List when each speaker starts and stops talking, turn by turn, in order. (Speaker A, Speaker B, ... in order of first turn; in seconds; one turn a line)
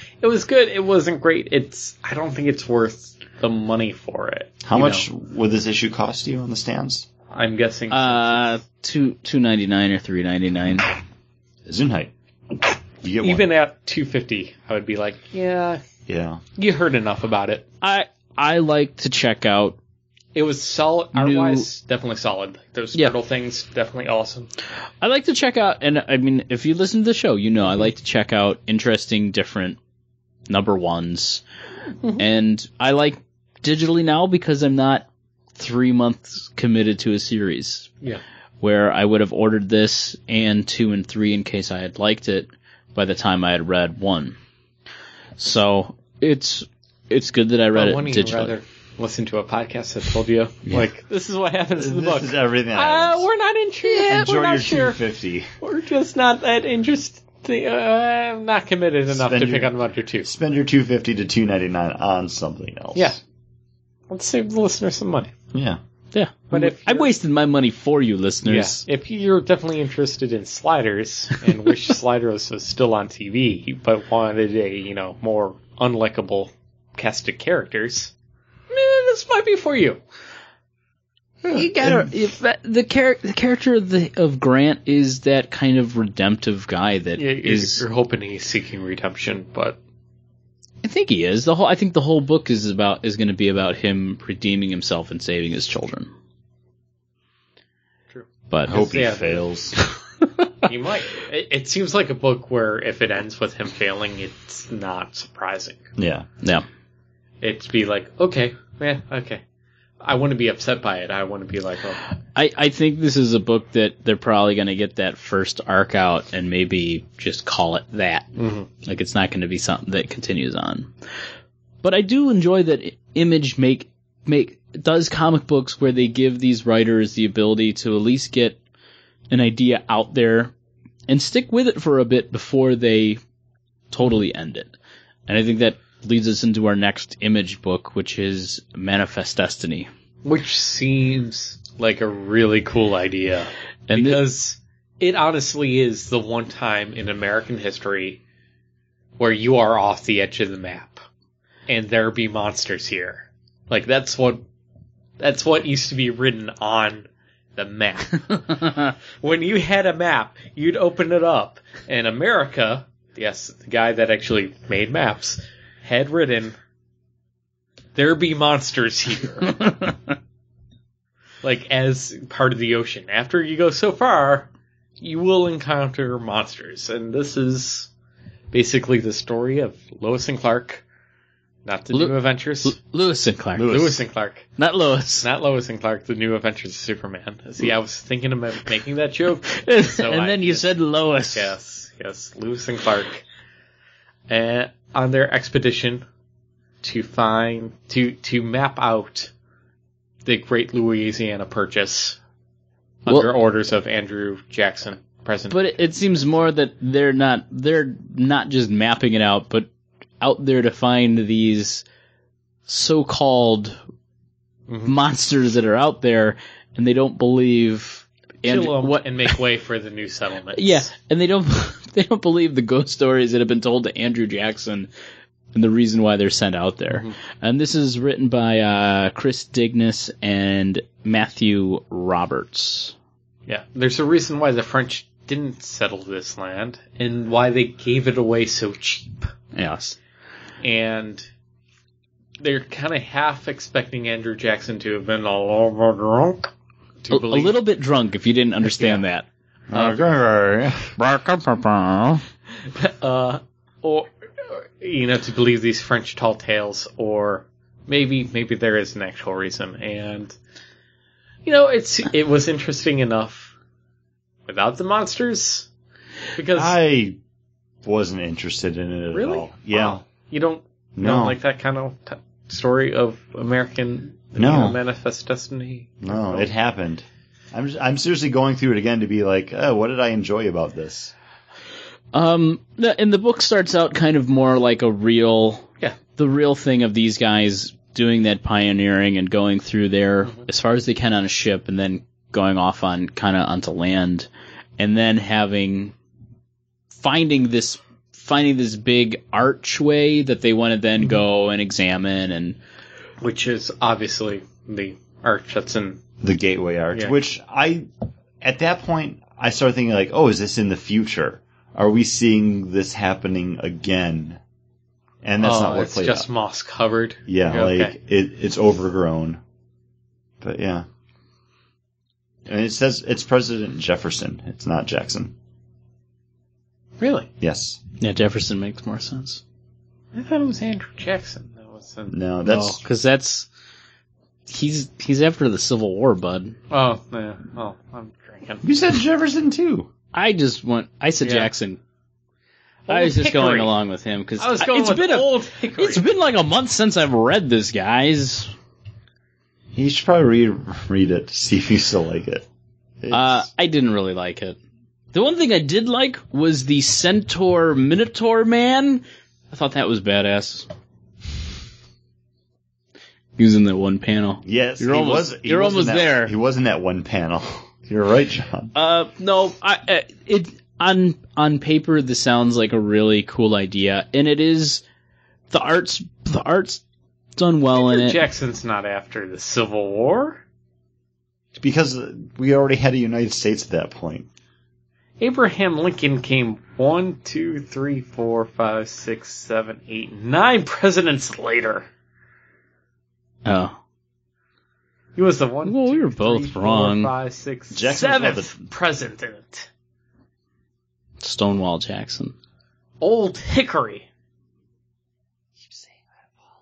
Speaker A: 0.2-5.1
Speaker B: 4.6-7.1
Speaker A: 7.3-8.6
Speaker C: 7.9-10.9
Speaker B: 11.7-12.1
Speaker B: 13.0-13.5
Speaker A: 13.2-15.8
Speaker B: 16.1-16.4
Speaker A: 16.6-17.7
Speaker C: 17.8-19.8
Speaker A: 20.4-24.5
Speaker C: 21.1-21.7
Speaker C: 25.0-29.8
Speaker C: 30.5-31.4
Speaker C: 32.2-37.9
Speaker C: 38.6-44.4
Speaker C: 45.4-48.5
Speaker A: 47.7-55.0
Speaker B: 51.8-53.3
Speaker C: 53.9-54.3
Speaker B: 54.1-55.5
Speaker A: 55.6-60.3
Speaker B: 59.1-63.2
Speaker A: 63.0-63.2
Speaker A: 64.1-65.3
Speaker B: 65.5-65.8
Speaker C: 66.1-68.8
Speaker A: 66.5-67.1
Speaker A: 68.5-78.1
Speaker A: 78.7-80.0
Speaker B: 81.5-82.1
Speaker C: 81.5-87.8
Speaker A: 87.2-89.8
Speaker C: 90.8-96.1
Speaker A: 98.1-99.4
Speaker C: 98.5-98.9
Speaker B: 98.7-99.8
Speaker A: 100.6-105.8
Speaker B: 106.0-106.3
Speaker A: 107.4-109.4
Speaker A: 110.0-112.0
Speaker C: 112.3-118.3
Speaker A: 118.4-118.7
Speaker C: 118.8-120.9
Speaker C: 121.8-128.6
Speaker C: 129.3-130.5
Speaker C: 131.1-133.2
Speaker C: 133.9-134.7
Speaker C: 135.3-139.9
Speaker A: 140.2-148.2
Speaker C: 143.9-144.2
Speaker A: 149.2-151.0
Speaker A: 151.7-154.4
Speaker A: 155.2-166.6
Speaker A: 167.9-169.7
Speaker A: 171.4-174.5
Speaker A: 175.0-177.9
Speaker A: 178.5-180.8
Speaker A: 181.7-182.8
Speaker C: 181.9-184.0
Speaker B: 183.6-183.9
Speaker A: 183.6-184.5
Speaker C: 184.6-185.3
Speaker A: 185.2-190.8
Speaker C: 189.5-191.5
Speaker A: 191.3-193.2
Speaker A: 194.3-196.1
Speaker A: 196.8-199.3
Speaker A: 200.2-202.2
Speaker A: 203.1-205.8
Speaker C: 205.5-209.7
Speaker C: 210.2-211.8
Speaker C: 212.7-213.8
Speaker A: 214.7-214.9
Speaker C: 214.8-219.4
Speaker A: 218.4-220.9
Speaker C: 220.6-224.9
Speaker C: 225.5-232.9
Speaker A: 226.9-227.2
Speaker A: 233.5-239.2
Speaker C: 239.5-240.0
Speaker A: 240.6-241.3
Speaker A: 242.4-246.5
Speaker A: 247.0-247.6
Speaker C: 247.1-249.9
Speaker A: 248.7-249.0
Speaker B: 249.7-250.9
Speaker C: 251.0-252.2
Speaker A: 252.7-260.4
Speaker A: 261.5-263.5
Speaker A: 264.5-265.7
Speaker A: 266.4-266.8
Speaker B: 266.5-267.2
Speaker B: 267.8-270.0
Speaker A: 269.1-276.5
Speaker B: 271.0-271.4
Speaker B: 274.4-274.8
Speaker B: 276.0-281.1
Speaker C: 282.1-294.3
Speaker C: 294.8-295.9
Speaker C: 296.9-302.6
Speaker A: 303.2-306.0
Speaker B: 306.2-307.9
Speaker B: 308.4-314.4
Speaker B: 315.2-316.3
Speaker A: 315.4-318.0
Speaker B: 317.3-319.4
Speaker B: 320.4-320.9
Speaker B: 322.5-325.4
Speaker A: 327.0-327.3
Speaker B: 327.4-327.8
Speaker C: 328.0-329.4
Speaker A: 330.1-332.2
Speaker B: 332.1-332.8
Speaker C: 332.5-333.5
Speaker C: 334.5-336.6
Speaker A: 336.7-338.6
Speaker B: 338.6-339.9
Speaker C: 340.1-341.8
Speaker A: 341.2-341.5
Speaker A: 342.9-343.7
Speaker C: 342.9-348.5
Speaker A: 344.4-346.1
Speaker B: 349.8-352.5
Speaker B: 353.0-353.4
Speaker C: 353.1-354.6
Speaker C: 355.1-360.7
Speaker C: 363.4-366.3
Speaker B: 364.4-368.7
Speaker C: 368.8-374.8
Speaker C: 375.5-376.8
Speaker C: 377.4-378.2
Speaker A: 377.7-380.4
Speaker B: 381.6-384.3
Speaker A: 385.2-391.9
Speaker C: 393.4-393.8
Speaker A: 395.2-399.7
Speaker C: 395.7-397.1
Speaker B: 397.7-398.7
Speaker C: 401.2-402.3
Speaker A: 403.0-404.1
Speaker B: 405.6-406.0